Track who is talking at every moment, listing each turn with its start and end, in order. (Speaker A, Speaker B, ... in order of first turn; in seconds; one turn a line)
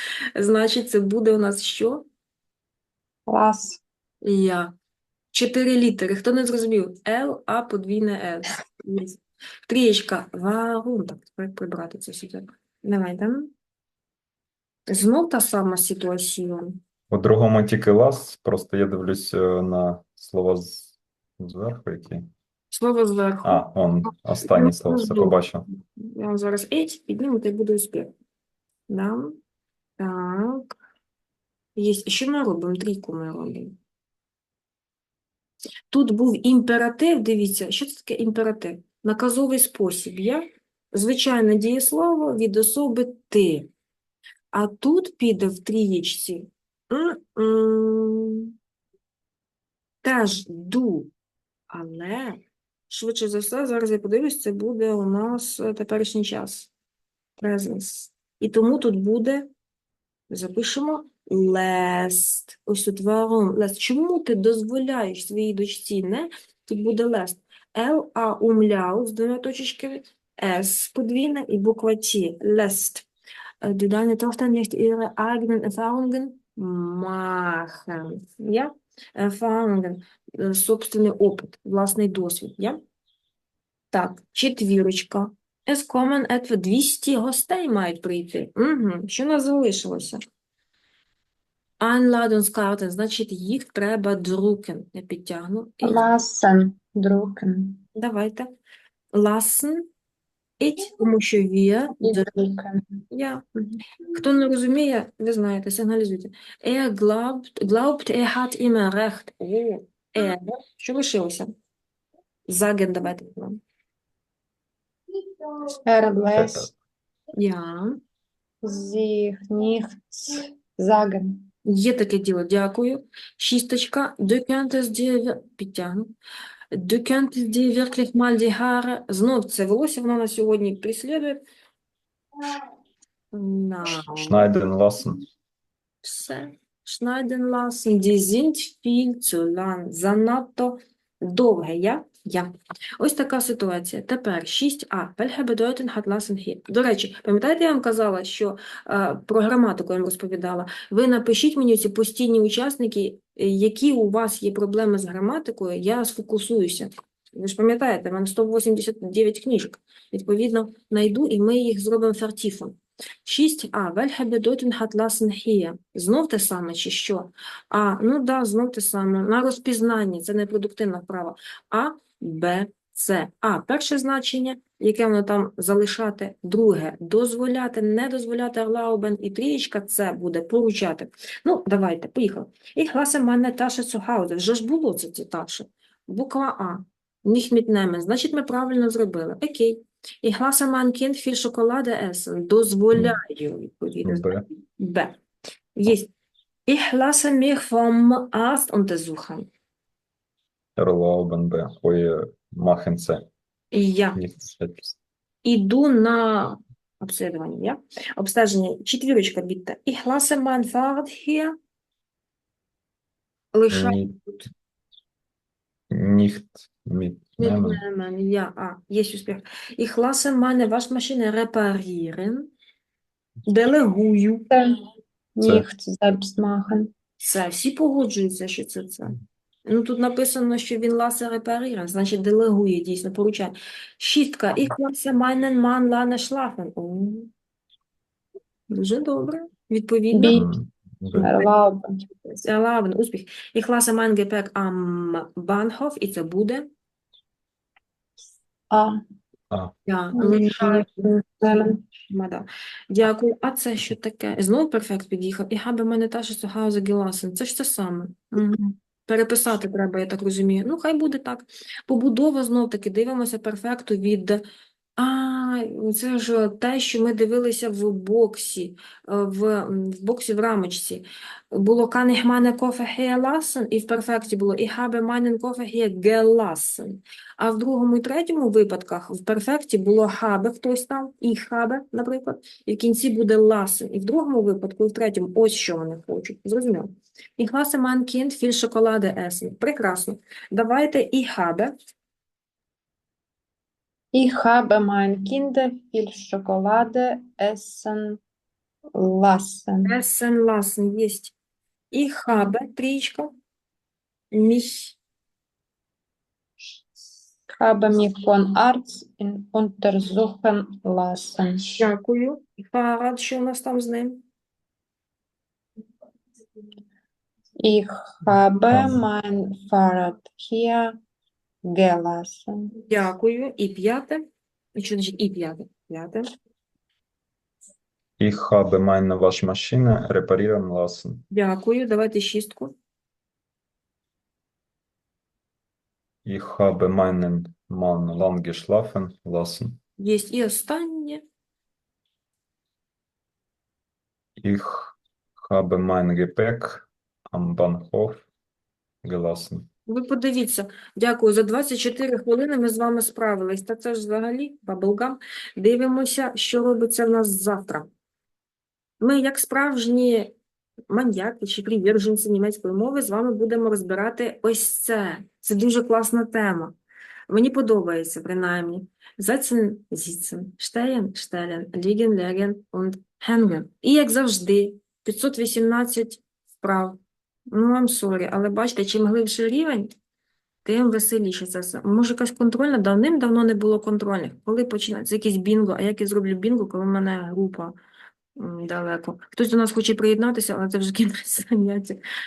Speaker A: 0.3-2.1
Speaker B: 3.3-3.8
Speaker A: 4.2-4.7
Speaker A: 5.3-13.5
Speaker A: 14.9-16.8
Speaker C: 17.1-22.3
Speaker A: 22.7-25.4
Speaker C: 23.4-25.7
Speaker A: 25.9-28.1
Speaker A: 28.9-29.4
Speaker A: 30.0-30.8
Speaker A: 31.8-33.8
Speaker A: 35.9-43.7
Speaker A: 44.5-48.5
Speaker A: 50.0-51.1
Speaker A: 51.7-56.7
Speaker A: 57.4-59.5
Speaker A: 60.3-73.1
Speaker A: 73.6-82.8
Speaker A: 83.9-90.2
Speaker A: 91.8-96.0
Speaker B: 95.8-97.8
Speaker A: 98.0-98.5
Speaker A: 99.1-99.9
Speaker A: 100.6-102.3
Speaker B: 102.0-103.0
Speaker A: 103.1-103.4
Speaker A: 104.1-111.5
Speaker A: 112.5-113.6
Speaker B: 115.8-116.7
Speaker C: 116.3-116.8
Speaker A: 117.3-118.0
Speaker B: 118.6-121.5
Speaker A: 121.7-126.1
Speaker A: 126.7-131.4
Speaker A: 133.3-134.4
Speaker C: 134.1-135.2
Speaker A: 136.0-195.2
Speaker C: 194.1-194.4
Speaker A: 195.8-196.1
Speaker A: 196.7-199.5
Speaker C: 200.8-203.3
Speaker A: 203.7-204.2
Speaker C: 204.2-205.0
Speaker A: 205.4-211.6
Speaker A: 213.5-214.5
Speaker C: 213.7-214.2
Speaker C: 215.9-217.8
Speaker A: 217.4-222.5
Speaker A: 223.5-224.5
Speaker B: 224.5-224.8
Speaker B: 225.4-226.9
Speaker A: 227.2-237.3
Speaker A: 238.7-240.5
Speaker B: 240.1-240.4
Speaker C: 240.3-241.4
Speaker B: 241.2-242.1
Speaker A: 242.4-246.7
Speaker B: 248.7-249.0
Speaker A: 249.9-251.1
Speaker B: 250.2-251.8
Speaker A: 252.1-264.4
Speaker A: 265.0-291.7
Speaker B: 294.1-298.2
Speaker B: 298.9-300.0
Speaker A: 299.9-301.4
Speaker A: 301.9-303.3
Speaker A: 304.3-305.0
Speaker B: 307.6-311.9
Speaker A: 311.8-314.2
Speaker B: 317.6-321.0
Speaker C: 318.7-319.0
Speaker B: 321.6-322.8
Speaker A: 322.9-326.2
Speaker C: 328.2-331.2
Speaker A: 331.3-332.8
Speaker C: 336.2-339.8
Speaker A: 340.0-341.2
Speaker C: 344.4-348.3
Speaker C: 349.0-349.7
Speaker A: 349.9-357.9
Speaker A: 359.0-360.3
Speaker A: 360.9-366.8
Speaker A: 367.3-377.0
Speaker A: 377.5-379.9
Speaker A: 380.6-387.7
Speaker A: 388.4-392.0